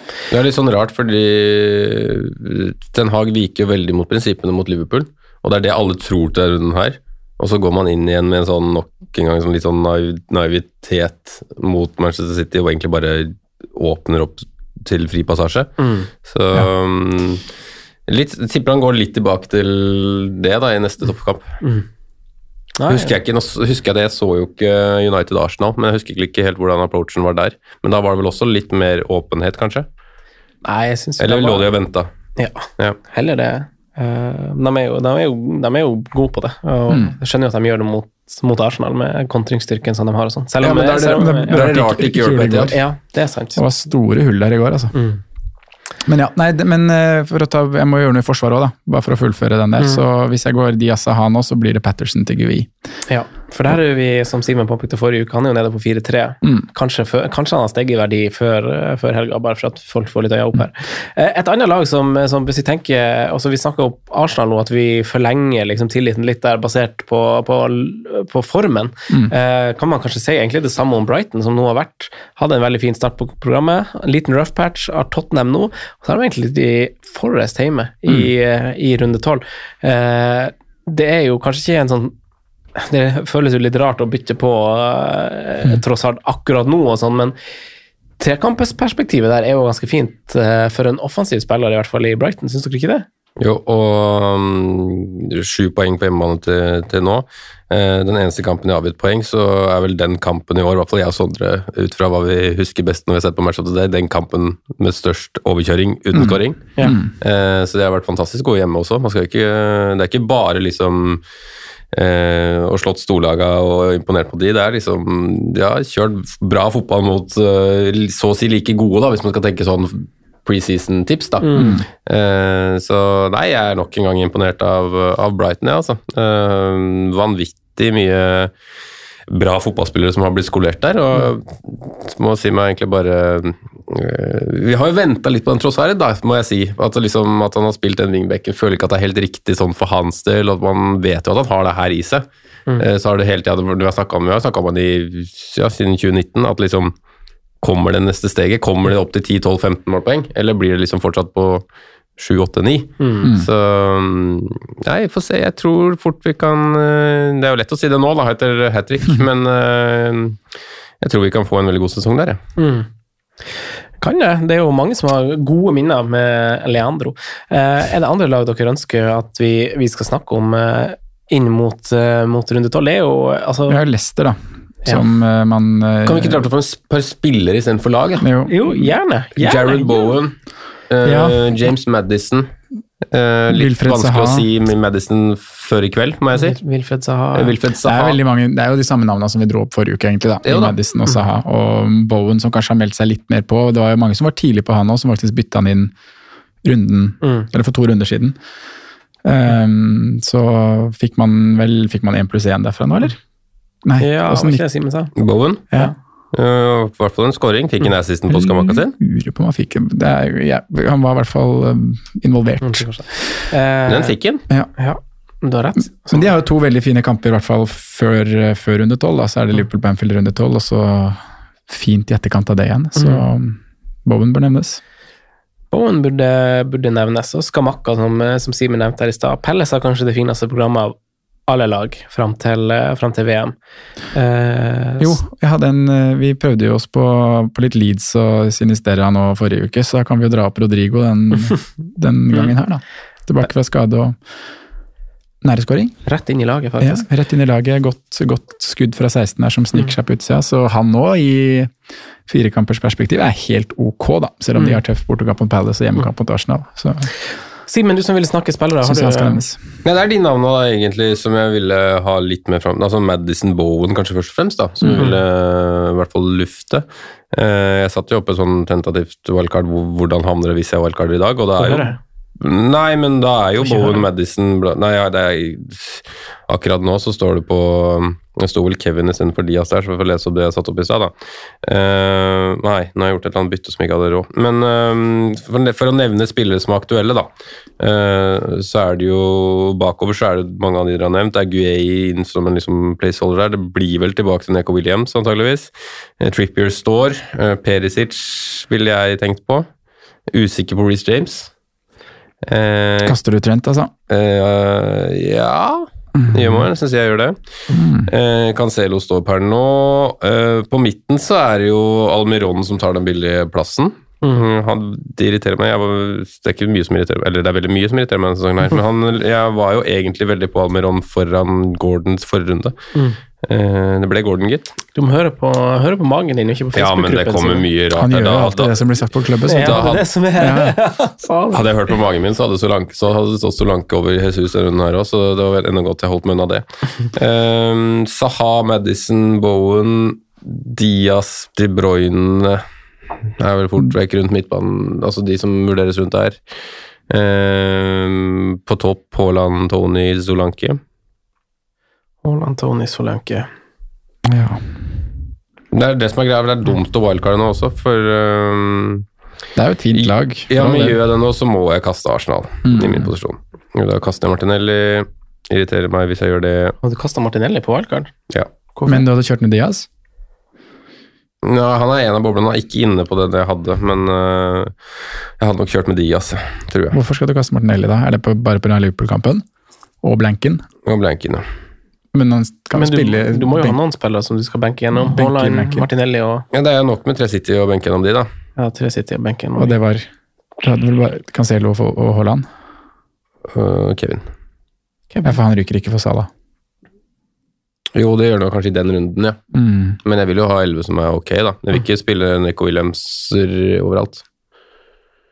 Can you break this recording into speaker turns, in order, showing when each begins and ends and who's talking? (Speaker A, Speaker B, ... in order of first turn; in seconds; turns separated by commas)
Speaker A: 0.3-17.4, Speaker B: 15.8-16.1, Speaker A: 18.1-21.6, Speaker B: 22.8-23.1, Speaker A: 22.9-29.9, Speaker B: 30.6-31.7, Speaker A: 31.2-32.1, Speaker B: 32.4-41.6, Speaker C: 36.9-37.1, Speaker A: 40.6-42.8, Speaker C: 41.1-42.8, Speaker B: 42.7-43.6, Speaker C: 43.5-44.9, Speaker B: 44.9-45.2, Speaker C: 46.0-52.7, Speaker B: 49.8-50.0, Speaker B: 53.1-82.1, Speaker B: 82.8-87.3, Speaker B: 88.2-93.0, Speaker A: 93.4-111.2, Speaker C: 106.1-107.1, Speaker A: 111.9-121.5, Speaker B: 121.4-121.8, Speaker C: 121.6-121.8, Speaker A: 122.0-128.5, Speaker A: 129.3-142.2, Speaker A: 142.8-146.9, Speaker A: 147.6-151.6, Speaker A: 152.2-160.4, Speaker B: 153.0-153.3, Speaker A: 161.0-162.4, Speaker B: 162.6-162.9, Speaker B: 164.0-173.8, Speaker C: 173.7-176.4, Speaker A: 176.0-178.2, Speaker C: 178.2-178.9, Speaker B: 178.5-179.8, Speaker A: 179.3-180.3, Speaker A: 180.9-182.5, Speaker C: 181.0-181.4, Speaker A: 183.1-186.6, Speaker C: 183.5-184.5, Speaker B: 186.3-187.6, Speaker A: 187.3-188.2, Speaker C: 187.8-195.9, Speaker A: 190.4-190.7, Speaker C: 196.6-198.4, Speaker B: 197.2-197.5, Speaker C: 199.2-203.2, Speaker C: 203.8-204.6, Speaker B: 204.0-205.1, Speaker A: 205.2-205.7, Speaker A: 206.3-208.9, Speaker C: 208.3-213.2, Speaker B: 212.6-214.1, Speaker A: 213.9-214.4, Speaker B: 214.8-216.3, Speaker C: 216.1-224.8, Speaker B: 223.0-223.2, Speaker B: 225.7-230.9, Speaker B: 231.5-233.5, Speaker B: 234.1-235.2, Speaker C: 235.0-244.2, Speaker C: 245.4-245.9, Speaker B: 246.0-247.0, Speaker C: 246.8-251.7, Speaker C: 252.3-257.1, Speaker B: 257.7-259.4, Speaker C: 258.8-259.6, Speaker A: 259.8-281.1, Speaker B: 271.6-272.0, Speaker B: 273.6-274.0, Speaker A: 281.6-287.3, Speaker A: 287.8-299.7, Speaker A: 300.3-301.5, Speaker A: 302.4-303.2, Speaker C: 303.0-303.9, Speaker A: 304.1-307.4, Speaker C: 306.1-306.7, Speaker C: 307.7-308.1, Speaker A: 308.1-322.8, Speaker A: 323.4-324.8, Speaker B: 324.9-327.6, Speaker A: 326.7-328.8, Speaker C: 328.0-330.7, Speaker B: 329.5-331.6, Speaker A: 329.6-330.0, Speaker A: 331.5-342.6, Speaker A: 343.4-346.4, Speaker A: 347.1-350.8, Speaker B: 352.2-353.5, Speaker C: 354.2-354.6, Speaker A: 355.7-359.0, Speaker C: 359.6-361.0, Speaker A: 359.9-366.8, Speaker C: 362.6-363.1, Speaker B: 366.8-368.1, Speaker B: 368.7-369.0, Speaker C: 368.9-369.9, Speaker A: 371.4-374.7, Speaker A: 375.4-377.0, Speaker C: 376.9-379.4, Speaker C: 380.0-380.6, Speaker A: 380.9-381.4, Speaker C: 382.1-383.8, Speaker B: 382.7-386.4, Speaker C: 385.0-385.9, Speaker A: 386.5-388.3, Speaker B: 388.6-389.7, Speaker C: 389.6-390.1, Speaker C: 390.6-392.4, Speaker A: 393.5-394.2, Speaker B: 395.1-395.4, Speaker C: 395.2-396.3, Speaker A: 397.9-399.4, Speaker C: 399.5-400.0, Speaker A: 400.0-404.2